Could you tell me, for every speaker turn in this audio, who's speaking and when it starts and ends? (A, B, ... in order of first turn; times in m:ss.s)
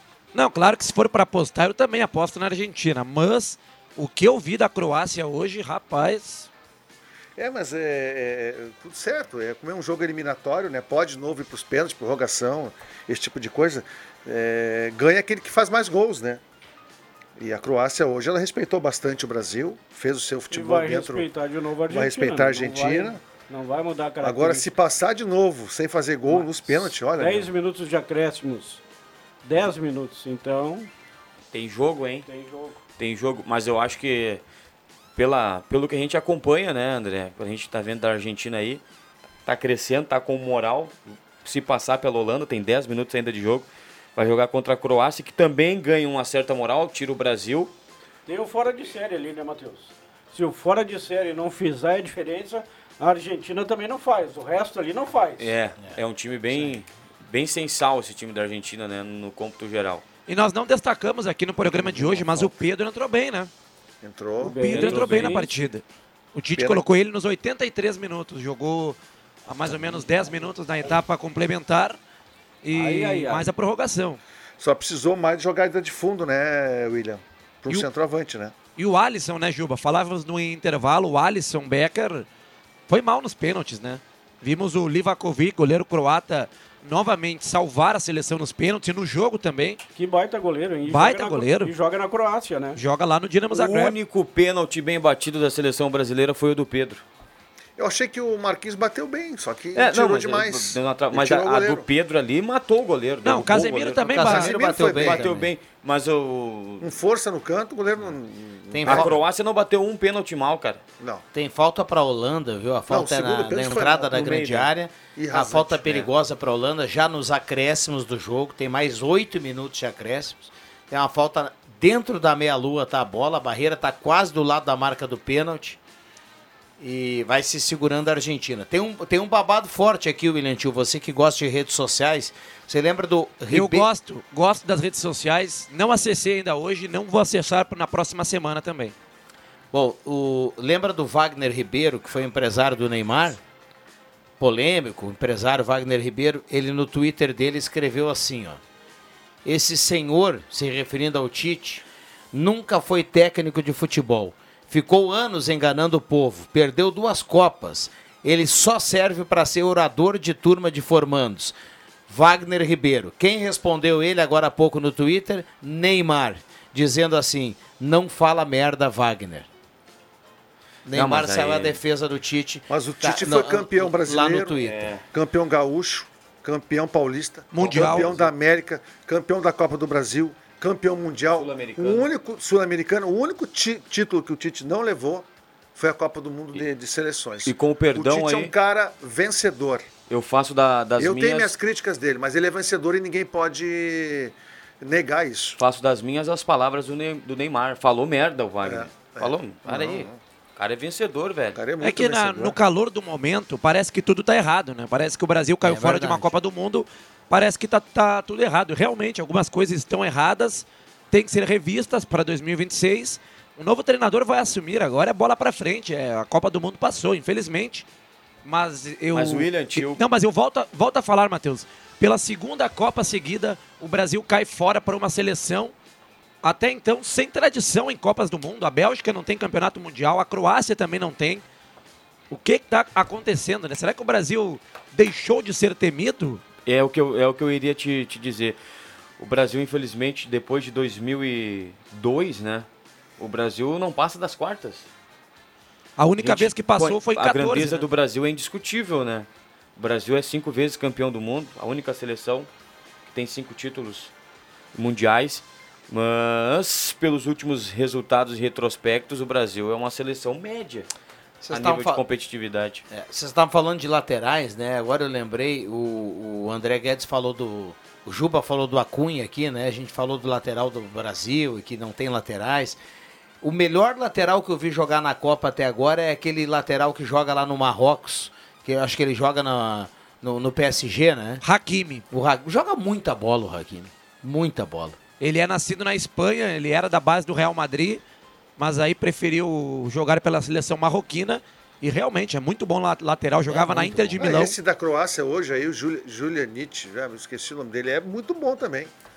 0:00.3-0:06.5 A
0:07.4-0:16.4 B
0:17.4-0:21.3 B
0:20.5-0:24.7 C
0:21.9-0:23.2 B
0:24.2-0:27.5 B
0:26.3-0:28.8 C
0:29.4-0:30.9 C
0:31.5-0:32.3 D
0:32.3-0:32.8 C
0:33.0-0:34.4 D
0:35.2-0:38.8 D
0:39.4-0:47.7 D
0:48.3-0:55.5 C
0:55.4-1:00.0 D
1:00.3-1:03.5 A
1:02.0-1:02.4 B
1:04.0-1:05.0 B
1:04.4-1:05.5 C
1:04.6-1:05.8 A
1:04.6-1:05.4 D
1:06.3-1:12.0 A
1:06.6-1:06.8 B
1:12.6-1:14.2 A
1:12.7-1:13.5 C
1:14.6-1:18.5 B
1:18.8-1:22.3 A
1:22.9-1:29.8 A
1:29.9-1:32.8 C
1:30.8-1:31.7 A
1:32.7-1:33.9 A
1:33.5-1:37.0 D
1:37.8-1:41.8 B
1:39.7-1:46.9 D
1:43.2-1:44.5 A
1:44.1-1:45.5 E
1:44.3-1:45.3 B
1:46.8-1:49.2 B
1:48.7-1:49.2 E
1:48.8-1:50.8 D
1:51.3-2:05.8 E
1:52.9-1:54.3 B
1:54.1-1:54.7 D
1:55.2-1:56.0 B
2:06.8-2:13.9 E
2:13.5-2:18.9 A
2:19.7-2:23.4 E
2:24.4-2:28.6 E
2:29.4-2:41.5 E
2:42.1-2:49.5 E
2:50.8-2:54.9 E
2:50.9-2:51.8 D
2:52.7-2:54.6 B
2:54.6-2:55.0 D
2:55.1-3:09.9 B
2:57.5-2:58.1 A
2:57.6-2:58.3 D
3:01.3-3:02.1 D
3:07.4-3:08.5 D
3:10.1-3:11.5 D
3:11.0-3:15.6 B
3:15.6-3:21.6 D
3:18.6-3:20.2 B
3:21.5-3:22.6 B
3:21.8-3:37.8 A
3:25.6-3:26.3 E
3:38.4-3:45.7 A
3:39.1-3:40.0 D
3:46.4-3:51.4 A
3:52.3-3:56.4 A
3:56.6-3:58.6 D
3:59.2-4:02.7 D
4:03.2-4:04.9 D
4:06.0-4:07.8 A
4:06.2-4:12.5 D
4:13.1-4:14.1 D
4:14.7-4:20.9 D
4:21.4-4:22.0 E
4:21.5-4:22.8 D
4:22.9-4:32.8 E
4:33.4-4:41.4 E
4:41.4-4:42.0 A
4:42.1-4:45.0 E
4:45.2-4:48.0 A
4:48.6-4:54.5 A
4:53.5-4:54.5 E
4:54.2-4:58.9 B